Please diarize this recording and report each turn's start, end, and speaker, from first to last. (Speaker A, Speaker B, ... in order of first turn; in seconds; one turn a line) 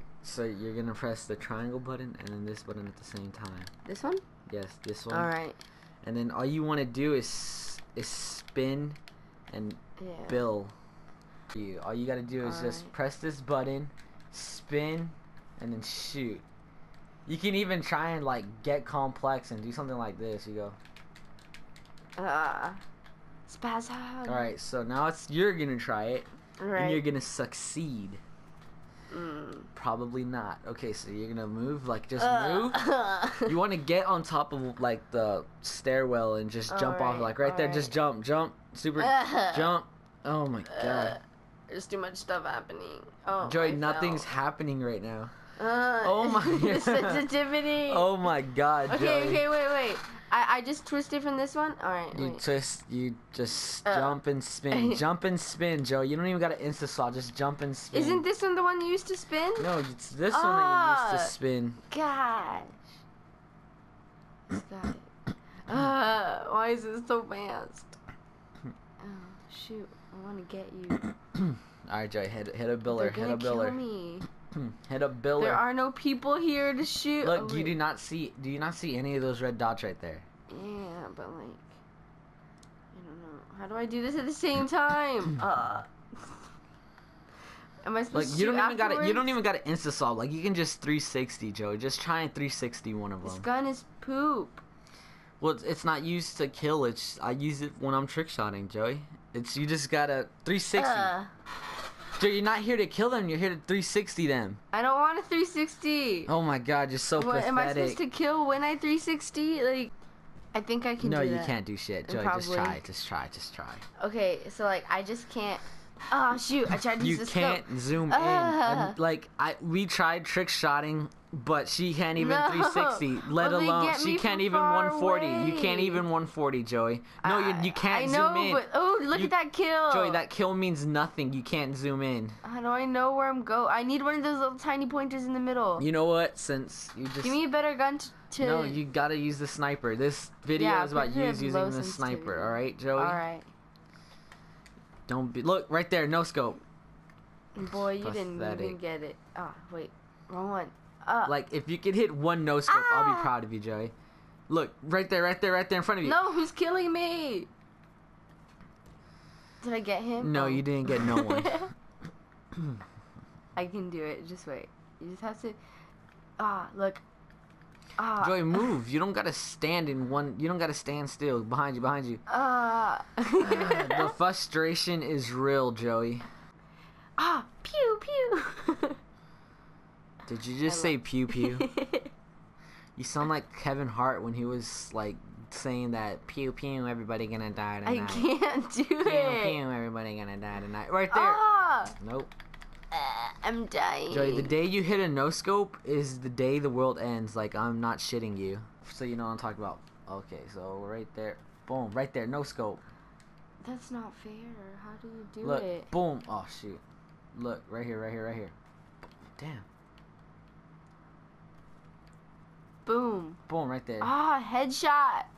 Speaker A: 0.2-3.7
Speaker B: 3.9-4.2
Speaker A: 4.5-5.3
Speaker B: 5.1-5.6
Speaker A: 6.0-9.0
Speaker A: 9.5-10.7
Speaker B: 10.0-10.5
Speaker A: 11.5-16.4
Speaker B: 12.4-12.9
Speaker A: 17.3-20.8
Speaker B: 22.2-22.8
Speaker B: 23.5-24.5
Speaker A: 24.2-28.2
Speaker B: 26.6-27.0
Speaker B: 29.1-29.7
Speaker A: 29.7-41.2
Speaker B: 32.2-33.5
Speaker B: 36.7-38.0
Speaker B: 39.0-39.7
Speaker B: 40.7-44.3
Speaker A: 43.4-45.3
Speaker B: 45.6-48.1
Speaker A: 46.0-47.3
Speaker A: 47.9-49.4
Speaker B: 48.9-52.4
Speaker A: 52.1-58.2
Speaker B: 53.9-54.2
Speaker B: 54.7-55.0
Speaker B: 57.9-59.7
Speaker A: 59.6-61.8
Speaker B: 60.3-61.3
Speaker B: 61.9-62.9
Speaker B: 64.5-65.1
Speaker B: 65.7-68.0
Speaker B: 69.0-71.0
Speaker A: 71.4-73.8
Speaker B: 72.9-74.3
Speaker A: 74.5-75.6
Speaker B: 75.4-77.8
Speaker A: 77.2-80.2
Speaker B: 80.5-81.7
Speaker B: 82.9-86.4
Speaker B: 87.8-89.4
Speaker A: 88.1-93.5
Speaker B: 93.2-94.6
Speaker A: 95.4-101.1
Speaker B: 100.8-101.3
Speaker A: 102.2-104.6
Speaker B: 104.7-106.3
Speaker A: 106.3-108.0
Speaker B: 107.2-109.9
Speaker B: 110.5-111.5
Speaker A: 111.0-113.8
Speaker B: 112.1-112.8
Speaker B: 114.0-119.0
Speaker A: 117.0-129.3
Speaker B: 122.2-126.0
Speaker B: 127.2-130.2
Speaker A: 129.9-132.4
Speaker B: 132.4-135.8
Speaker A: 135.8-137.4
Speaker B: 137.2-138.8
Speaker A: 138.4-143.2
Speaker B: 140.6-143.5
Speaker A: 145.1-146.6
Speaker B: 147.6-151.3
Speaker A: 148.0-148.8
Speaker A: 151.2-153.9
Speaker B: 152.7-153.3
Speaker A: 154.5-156.2
Speaker B: 156.0-157.5
Speaker B: 159.6-161.7
Speaker A: 160.2-161.7
Speaker B: 163.6-165.6
Speaker B: 166.4-167.0
Speaker B: 168.0-168.7
Speaker A: 168.2-172.2
Speaker B: 172.3-174.1
Speaker A: 173.4-176.3
Speaker B: 177.2-179.0
Speaker A: 180.3-181.7
Speaker B: 180.7-182.1
Speaker A: 183.0-188.3
Speaker B: 187.9-189.6
Speaker A: 189.0-191.4
Speaker B: 191.1-192.0
Speaker A: 191.9-192.3
Speaker B: 192.9-194.6
Speaker A: 194.1-202.8
Speaker B: 203.6-205.9
Speaker A: 205.4-206.8
Speaker A: 207.3-208.5
Speaker A: 209.4-209.7
Speaker B: 212.9-213.4
Speaker A: 213.5-214.1
Speaker B: 214.0-215.3